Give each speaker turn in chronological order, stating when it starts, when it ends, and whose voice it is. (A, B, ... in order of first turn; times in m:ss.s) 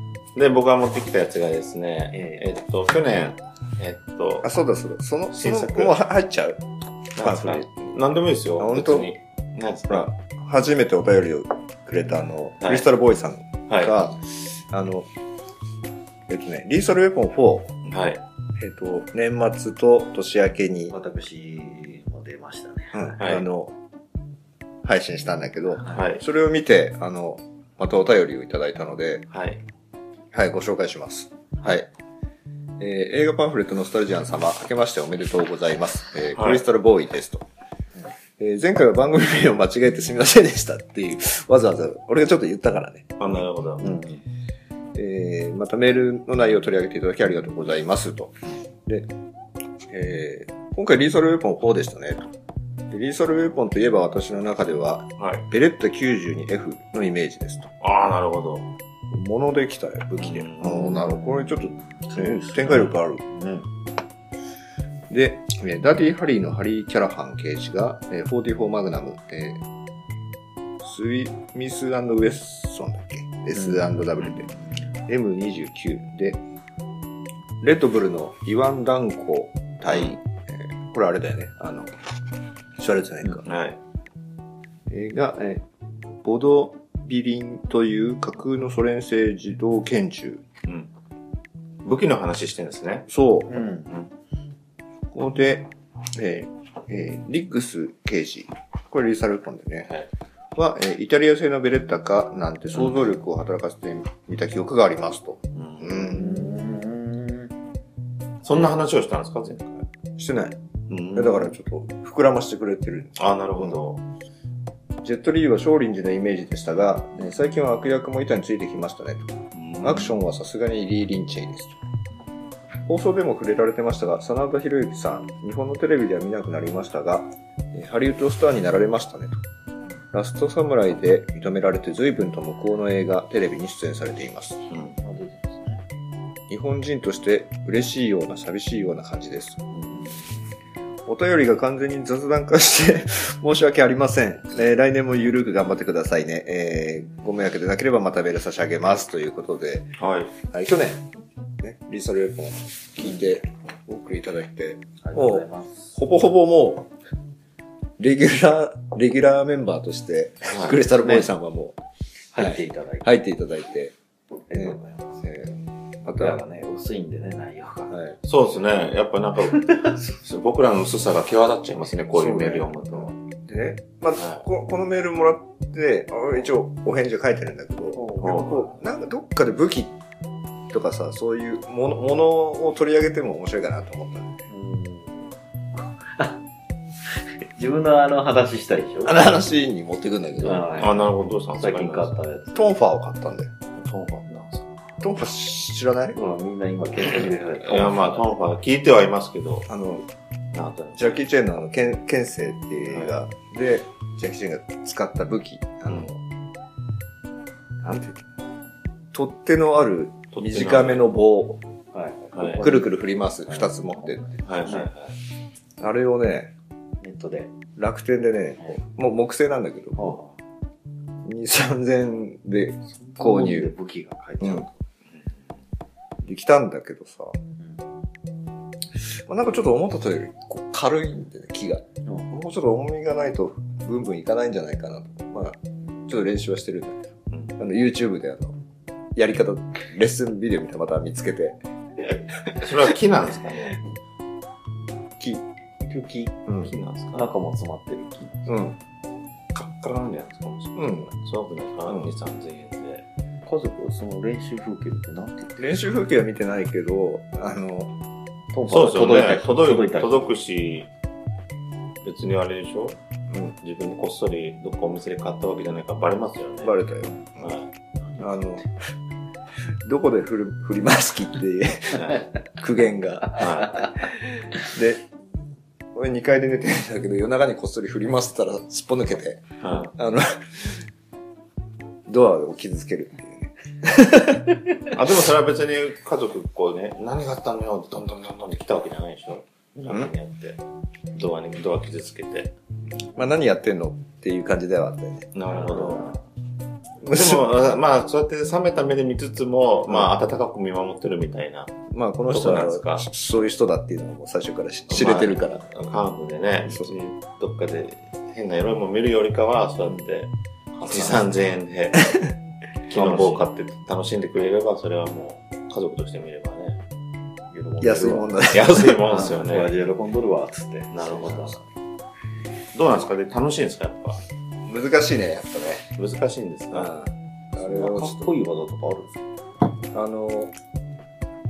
0:00.4-0:04.5 A
0:04.4-0:06.6 B
0:05.3-0:06.0 A
0:07.2-0:10.1 A
0:07.2-0:08.0 B
0:08.6-0:09.1 B
0:09.9-0:15.1 B
0:12.6-0:12.9 A
0:16.3-0:17.7 B
0:17.8-0:18.2 A
0:18.6-0:20.9 B
0:20.9-0:23.1 C
0:22.9-0:23.7 B
0:23.2-0:23.5 A
0:24.8-0:29.2 B
0:25.9-0:26.2 A
0:29.3-0:29.6 A
0:30.3-0:31.9 B
0:32.8-0:37.4 B
0:36.4-0:36.6 A
0:38.4-0:44.0 B
0:43.2-0:43.8 A
0:43.8-0:44.2 C
0:45.0-0:49.1 B
0:49.9-0:52.3 B
0:52.9-0:57.7 B
0:55.2-0:55.4 A
0:57.8-0:58.7 A
0:59.1-1:03.6 B
1:00.2-1:00.8 A
1:00.7-1:03.5 C
1:05.1-1:09.6 B
1:10.8-1:14.5 B
1:15.1-1:16.4 B
1:17.6-1:21.9 B
1:19.9-1:20.2 A
1:22.8-1:23.5 B
1:23.4-1:23.8 A
1:24.9-1:25.6 B
1:26.2-1:30.4 B
1:31.8-1:33.1 A
1:33.1-1:33.6 B
1:33.5-1:33.9 C
1:35.1-1:39.9 B
1:40.6-1:46.5 B
1:42.8-1:43.1 C
1:45.6-1:46.1 A
1:46.1-1:47.5 C
1:48.4-1:49.9 A
1:50.2-1:50.6 B
1:50.9-1:51.5 A
1:51.1-1:53.8 B
1:53.2-1:54.0 A
1:55.0-2:01.8 B
1:59.5-2:00.1 A
2:02.9-2:09.4 B
2:10.1-2:14.6 B
2:15.0-2:15.8 C
2:16.5-2:19.7 B
2:21.1-2:29.9 B
2:30.0-2:30.4 A
2:30.5-2:31.0 B
2:31.6-2:36.9 B
2:35.0-2:35.9 C
2:38.0-2:41.8 B
2:40.4-2:40.8 A
2:41.0-2:41.3 C
2:42.3-2:43.1 C
2:42.4-2:43.9 B
2:44.5-2:45.1 C
2:44.5-2:46.4 B
2:46.2-2:48.0 C
2:47.9-2:48.2 B
2:48.2-2:53.1 A
2:49.5-2:50.0 C
2:52.2-3:00.0 B
2:54.2-2:54.4 A
2:58.0-2:58.7 C
2:58.2-2:58.7 A
3:00.7-3:04.5 B
3:04.5-3:05.2 C
3:06.1-3:06.4 C
3:07.6-3:09.4 C
3:09.0-3:10.9 B
3:10.4-3:12.8 C
3:10.8-3:12.2 A
3:12.6-3:13.5 B
3:13.8-3:14.8 A
3:15.0-3:16.2 B
3:16.2-3:18.3 C
3:17.6-3:19.7 A
3:19.7-3:20.0 B
3:20.5-3:21.1 A
3:21.0-3:26.2 B
3:22.8-3:23.2 A
3:27.8-3:28.2 B
3:29.1-3:31.6 B
3:30.3-3:31.1 A
3:31.9-3:32.9 C
3:32.4-3:32.6 A
3:32.6-3:34.4 B
3:33.5-3:34.9 C
3:34.4-3:35.1 A
3:35.8-3:36.5 B
3:37.0-3:37.6 C
3:37.8-3:40.2 B
3:40.0-3:40.3 C
3:41.2-3:43.7 B
3:42.9-3:44.7 C
3:44.4-3:44.7 B
3:46.2-3:47.4 B
3:49.3-3:57.0 B
3:57.6-3:58.6 B
3:59.2-4:01.6 B
4:02.6-4:03.8 A
4:05.8-4:06.4 C
4:06.5-4:06.7 B
4:06.6-4:07.3 A
4:07.1-4:08.6 C
4:08.5-4:08.8 B
4:09.5-4:13.0 A
4:10.8-4:11.1 B
4:13.4-4:15.6 C
4:15.6-4:17.9 B
4:18.5-4:20.3 C
4:18.7-4:20.9 A
4:22.0-4:23.0 A
4:23.3-4:23.6 B
4:23.6-4:26.8 A
4:26.6-4:27.5 B
4:27.4-4:27.7 A
4:28.2-4:28.7 B
4:29.8-4:33.6 B
4:31.9-4:32.3 A
4:33.3-4:33.9 A
4:34.7-4:35.0 B
4:36.0-4:40.8 B
4:39.6-4:39.9 A
4:42.1-4:44.5 B
4:44.9-4:50.6 A
4:51.1-4:52.5 A
4:53.2-4:56.0 B
4:55.4-4:56.2 A
4:57.0-4:57.5 B
4:57.1-5:01.7 A
5:01.9-5:05.7 B
5:02.3-5:03.1 A
5:04.9-5:12.2 A
5:12.9-5:16.8 A
5:13.0-5:13.4 B
5:17.5-5:21.6 C
5:17.8-5:19.0 B
5:18.5-5:19.7 A
5:20.9-5:21.6 A
5:22.7-5:24.2 A
5:24.7-5:25.9 B
5:26.0-5:26.9 A
5:26.7-5:28.3 B
5:27.6-5:29.2 C
5:29.9-5:30.5 B